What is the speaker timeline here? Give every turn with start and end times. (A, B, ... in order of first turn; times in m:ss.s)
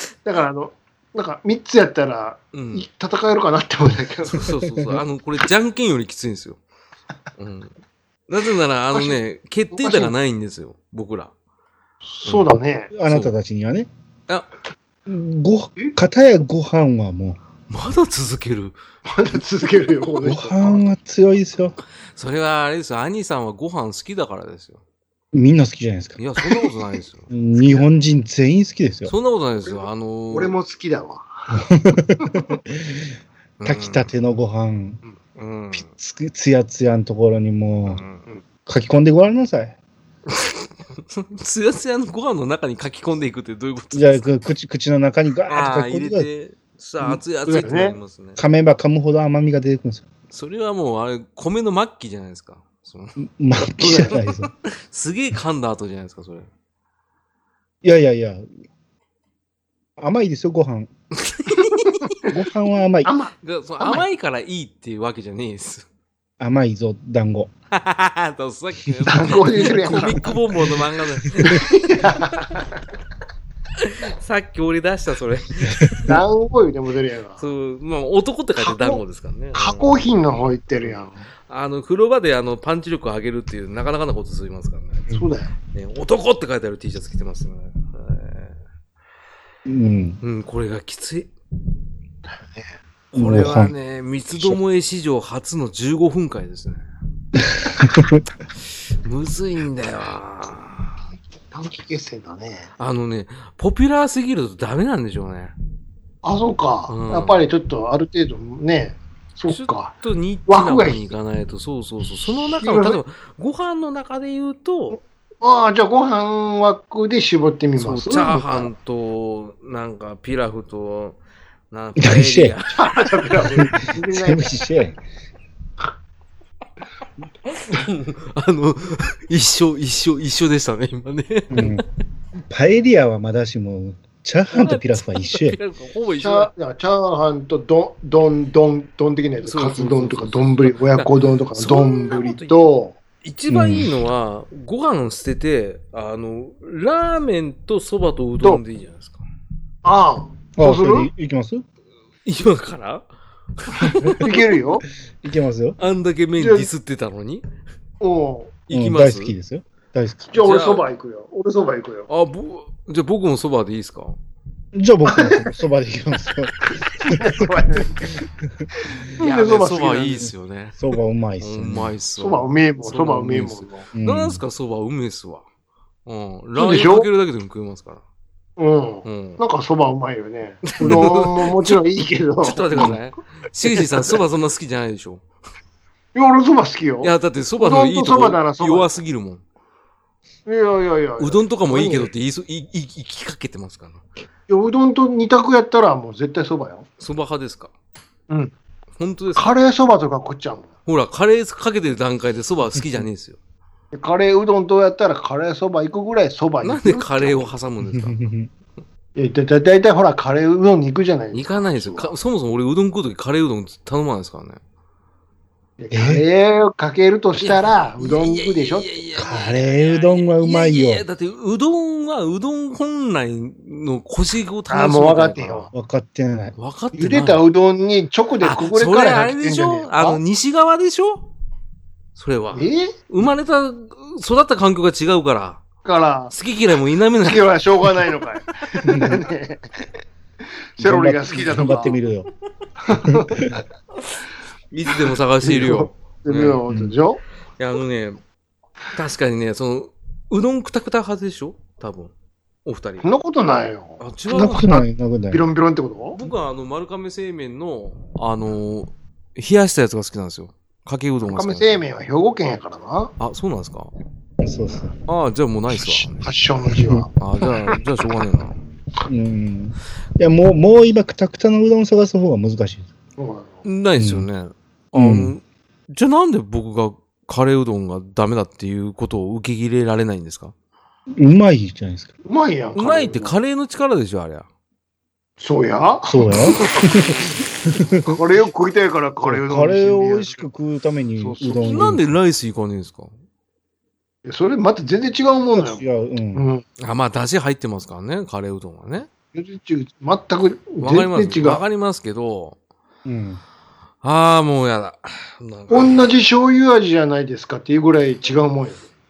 0:00.2-0:04.5 A
0:02.5-0:02.8 B
0:04.2-0:06.6 B
0:07.4-0:07.7 B
0:08.3-0:11.3 B
0:08.9-0:09.2 A
0:09.7-0:10.1 A
0:12.0-0:12.9 A
0:12.9-0:13.9 C
0:13.0-0:13.3 B
0:15.0-0:17.4 C
0:17.7-0:18.8 B
0:19.0-0:20.9 A
0:20.2-0:21.8 C
0:22.1-0:24.8 B
0:25.3-0:26.2 C
0:26.2-0:27.3 B
0:27.3-0:29.1 C
0:29.0-0:30.5 B
0:29.6-0:31.6 A
0:31.7-0:33.1 C
0:32.2-0:32.5 A
0:33.6-0:34.1 B
0:33.6-0:35.0 C
0:35.4-0:35.9 B
0:35.7-0:38.0 C
0:37.9-0:38.2 B
0:38.6-0:39.8 C
0:40.3-0:44.3 B
0:43.9-0:46.3 C
0:45.5-0:48.4 B
0:47.4-0:48.0 A
0:48.4-0:50.0 C
0:50.3-0:53.2 B
0:53.2-0:54.5 C
0:53.8-0:56.5 B
0:53.8-0:54.1 A
0:57.8-0:58.5 C
1:00.0-1:00.9 C
1:01.2-1:02.0 B
1:01.5-1:02.3 A
1:02.2-1:03.1 C
1:03.0-1:04.0 A
1:03.4-1:05.8 B
1:06.4-1:07.5 C
1:07.7-1:12.5 B
1:09.0-1:10.3 A
1:11.4-1:12.8 A
1:13.8-1:16.1 B
1:16.0-1:17.4 A
1:17.4-1:20.0 B
1:18.6-1:19.0 A
1:19.5-1:21.2 A
1:21.5-1:25.1 B
1:25.1-1:25.5 A
1:25.7-1:28.6 B
1:29.6-1:30.2 C
1:30.2-1:31.3 B
1:32.3-1:32.7 A
1:33.1-1:36.8 B
1:33.2-1:33.7 C
1:37.4-1:38.2 C
1:39.0-1:40.9 B
1:41.5-1:42.7 A
1:42.8-1:45.5 B
1:46.2-1:49.9 A
1:46.9-1:47.4 B
1:49.5-1:55.0 B
1:50.5-1:51.0 A
1:52.2-1:53.0 A
1:54.9-1:58.7 A
1:57.8-2:01.2 B
2:01.7-2:03.6 B
2:02.0-2:02.5 C
2:02.7-2:04.6 A
2:03.6-2:05.0 C
2:07.7-2:11.8 B
2:11.5-2:11.8 C
2:12.4-2:15.6 C
2:14.5-2:16.5 B
2:16.2-2:23.0 A
2:19.4-2:22.6 B
2:23.2-2:29.2 B
2:23.5-2:23.9 C
2:29.8-2:31.1 A
2:30.6-2:31.6 C
2:32.2-2:33.0 B
2:33.6-2:34.3 B
2:34.1-2:34.8 A
2:35.2-2:35.8 C
2:35.8-2:37.4 B
2:36.4-2:36.7 A
2:38.0-2:38.6 A
2:38.7-2:39.3 B
2:38.7-2:40.3 C
2:40.3-2:42.1 A
2:40.4-2:40.8 B
2:42.1-2:44.2 B
2:44.7-2:47.4 C
2:45.1-2:45.5 A
2:46.6-2:48.2 A
2:48.9-2:50.3 A
2:49.2-2:50.8 B
2:50.8-2:51.9 C
2:51.4-2:55.4 B
2:52.2-2:53.8 A
2:54.0-2:54.4 C
2:56.0-2:58.0 B
2:56.6-2:57.1 A
2:58.6-3:03.0 A
2:59.0-2:59.4 B
3:00.6-3:01.8 B
3:02.4-3:05.2 B
3:03.7-3:04.2 A
3:06.1-3:09.0 A
3:07.0-3:09.4 B
3:10.4-3:12.1 A
3:11.2-3:14.0 B
3:14.5-3:16.8 A
3:17.0-3:17.7 B
3:18.3-3:18.5 A
3:19.0-3:19.5 B
3:19.3-3:20.7 A
3:20.8-3:23.4 B
3:23.9-3:27.5 A
3:26.6-3:28.2 B
3:27.9-3:28.5 C
3:29.2-3:32.1 A
3:31.3-3:34.6 B
3:35.8-3:39.0 A
3:35.9-3:36.2 C
3:37.4-3:45.7 B
3:39.2-3:41.0 C
3:44.7-3:45.7 A
3:45.7-3:46.5 C
3:46.6-3:47.4 B
3:46.9-3:50.2 A
3:48.4-3:51.3 B
3:52.2-3:55.6 B
3:52.5-3:52.9 A
3:55.8-3:56.3 A
3:56.3-3:58.2 B
3:57.2-3:59.8 A
3:58.9-3:59.2 C
4:00.8-4:02.0 A
4:00.8-4:02.3 C
4:02.8-4:03.6 A
4:03.0-4:03.5 C
4:04.7-4:06.6 B
4:04.9-4:07.2 A
4:07.6-4:08.2 B
4:08.9-4:12.1 B
4:12.6-4:13.0 B
4:13.0-4:14.6 A
4:14.0-4:14.8 B
4:14.3-4:15.4 C
4:15.3-4:16.2 A
4:16.1-4:21.8 B
4:21.2-4:23.1 A
4:23.2-4:23.9 B
4:24.4-4:24.9 C
4:25.0-4:26.3 B
4:25.7-4:27.1 A
4:27.2-4:28.5 B
4:29.1-4:32.9 C
4:33.2-4:33.6 A
4:33.6-4:40.5 B
4:34.0-4:34.3 C
4:34.9-4:35.3 C
4:41.2-4:42.1 C
4:42.2-4:43.4 A
4:42.8-4:44.4 B
4:45.4-4:46.9 A
4:46.1-4:48.1 C
4:48.0-4:50.4 A
4:49.2-4:52.0 C
4:51.2-4:51.7 A
4:51.6-4:53.1 B
4:54.2-4:55.8 A
4:55.6-4:56.4 C
4:56.3-4:56.6 A
4:56.8-4:59.1 B
4:59.3-5:01.6 A
5:00.8-5:02.6 B
5:03.0-5:03.4 C
5:04.0-5:06.1 B
5:05.7-5:08.8 A